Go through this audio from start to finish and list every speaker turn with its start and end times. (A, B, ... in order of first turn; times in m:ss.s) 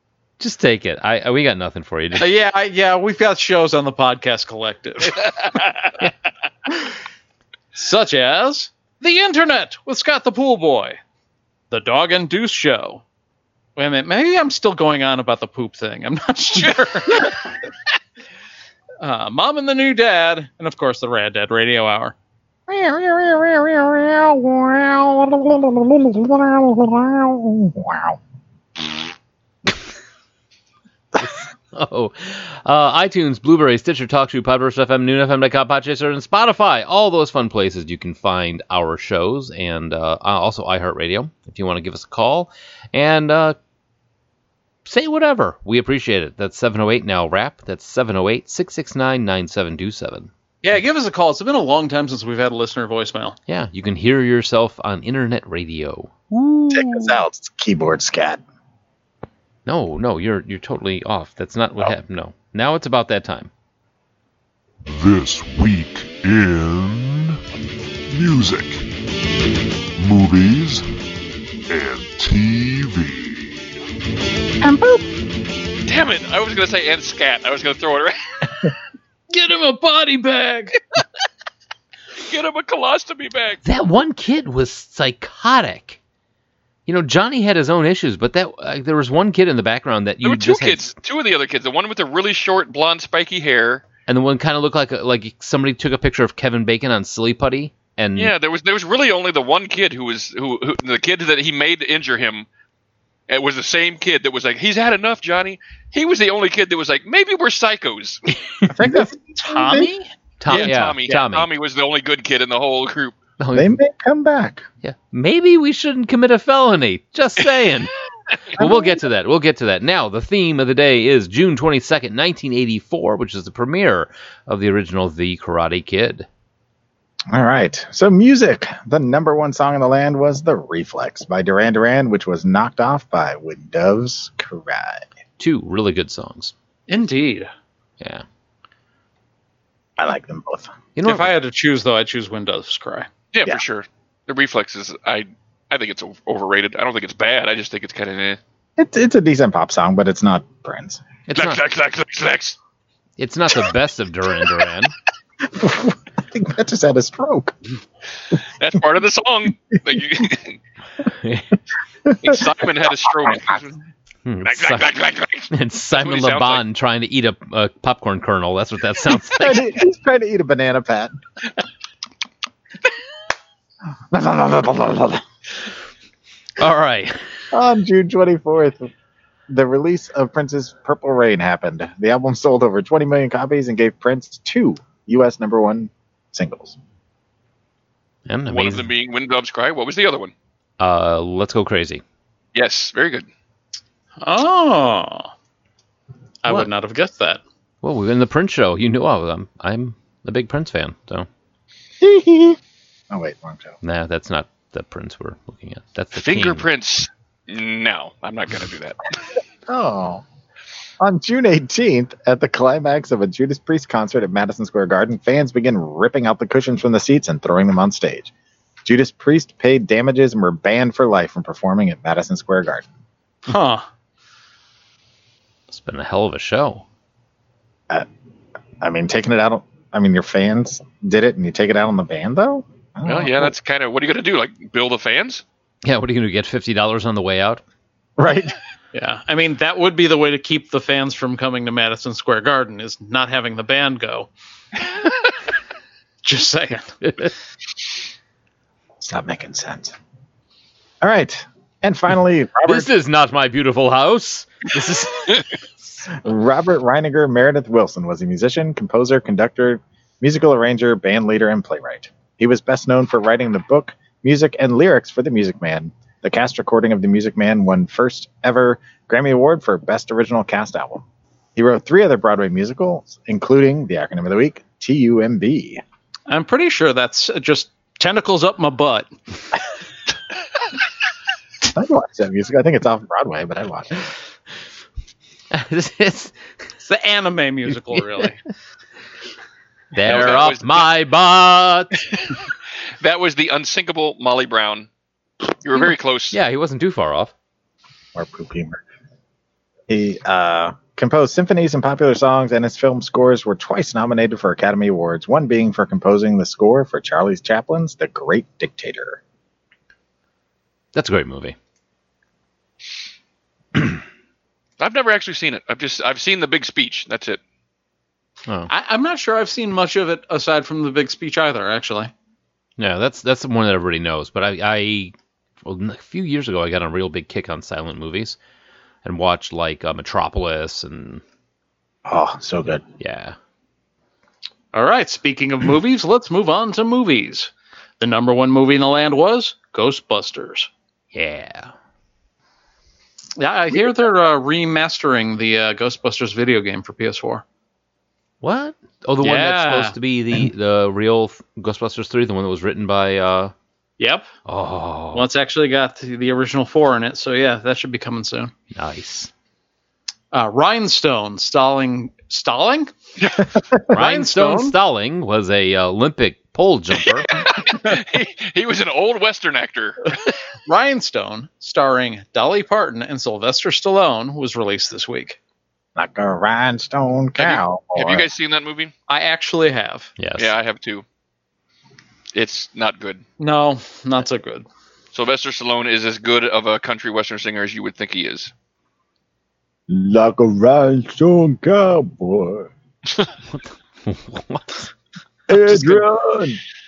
0:00.4-0:02.3 A
0:02.2-0:06.0 B
0:07.7-0:11.0 B
0:11.7-0:13.0 B
0:13.8-0:17.4 B
0:19.0-0:22.2 B
0:22.7-0:28.2 C
0:31.2-0:43.6 A
0:44.9-0:50.3 A
0:50.6-0:53.4 B
0:53.5-0:57.2 A
0:56.7-0:58.4 C
0:59.7-1:03.5 A
1:04.8-1:07.4 D
1:08.1-1:08.8 D
1:10.0-1:10.9 D
1:11.7-1:13.7 D
1:14.6-1:15.1 C
1:15.9-1:18.2 E
1:19.3-1:20.8 B
1:22.2-1:23.6 E
1:23.6-1:26.0 A
1:26.9-1:30.9 A
1:30.2-1:33.8 E
1:34.1-1:38.3 A
1:38.2-1:42.5 E
1:43.3-1:48.2 E
1:48.7-1:49.9 C
1:48.7-1:51.2 B
1:50.4-1:51.5 A
1:50.5-1:53.2 E
1:53.4-1:53.8 A
1:53.6-1:54.6 C
1:54.8-1:57.9 A
1:58.6-2:06.3 A
1:58.6-1:59.0 C
2:07.3-2:15.1 C
2:15.4-2:16.5 A
2:16.9-2:17.5 B
2:18.0-2:18.2 A
2:20.0-2:20.7 C
2:21.0-2:21.3 A
2:21.0-2:23.1 B
2:23.3-2:28.4 E
2:28.8-2:31.0 C
2:31.3-2:31.6 A
2:31.4-2:32.6 E
2:33.2-2:34.9 A
2:35.4-2:37.6 C
2:38.6-2:40.6 E
2:41.1-2:41.5 A
2:42.1-2:42.3 C
2:42.2-2:43.8 E
2:44.2-2:44.9 A
2:44.4-2:46.6 E
2:45.5-2:49.6 A
2:49.4-2:51.2 C
2:54.1-2:55.2 C
2:56.6-2:57.2 A
2:57.5-2:58.9 C
2:59.5-3:06.8 C
3:08.3-3:08.9 A
3:08.5-3:10.3 E
3:10.8-3:12.0 A
3:12.6-3:13.3 E
3:14.2-3:15.3 B
3:16.4-3:17.4 B
3:17.8-3:21.3 A
3:22.0-3:22.6 C
3:23.1-3:23.8 C
3:23.8-3:26.7 A
3:26.2-3:29.1 E
3:29.7-3:30.2 C
3:31.0-3:38.3 C
3:38.8-3:42.9 C
3:43.5-3:43.9 B
3:45.7-3:46.8 A
3:48.8-3:53.6 C
3:53.0-3:55.4 E
3:55.8-3:57.6 A
3:58.2-3:58.6 C
3:58.9-4:04.3 B
4:06.2-4:06.9 B
4:07.0-4:07.3 A
4:09.0-4:10.0 C
4:11.0-4:12.9 C
4:12.7-4:15.6 A
4:16.2-4:31.0 C
4:31.6-4:35.8 C
4:36.3-4:39.1 B
4:41.7-4:44.1 C
4:45.5-4:46.4 A
4:46.8-4:48.4 B
4:49.9-4:52.1 A
4:50.0-4:50.9 E
4:53.0-4:54.9 E
4:55.6-4:56.4 E
4:56.3-4:57.3 A
4:58.2-4:58.8 C
4:59.9-5:09.2 C
5:11.0-5:11.6 A
5:14.8-5:17.4 E
5:18.7-5:22.1 B
5:22.8-5:28.4 A
5:29.0-5:31.2 A
5:32.1-5:32.8 C
5:33.0-5:33.4 A
5:34.7-5:40.7 B
5:41.1-5:41.7 A
5:43.4-5:47.4 B
5:48.4-5:53.5 A
5:49.2-5:50.0 B
5:54.0-5:54.3 B
5:54.5-5:55.3 A
5:55.1-5:58.5 B
5:58.7-5:59.3 A
6:00.3-6:02.9 B
6:03.2-6:03.5 E
6:03.9-6:07.5 A
6:03.9-6:04.8 B
6:07.3-6:10.2 E
6:10.7-6:15.4 B
6:16.0-6:18.3 C
6:17.4-6:18.9 E
6:19.1-6:20.1 B
6:20.2-6:20.5 A
6:20.4-6:21.0 E
6:22.3-6:23.2 E
6:23.4-6:24.7 B
6:25.1-6:28.5 E
6:29.9-6:32.7 C
6:33.5-6:34.9 A
6:35.5-6:36.6 C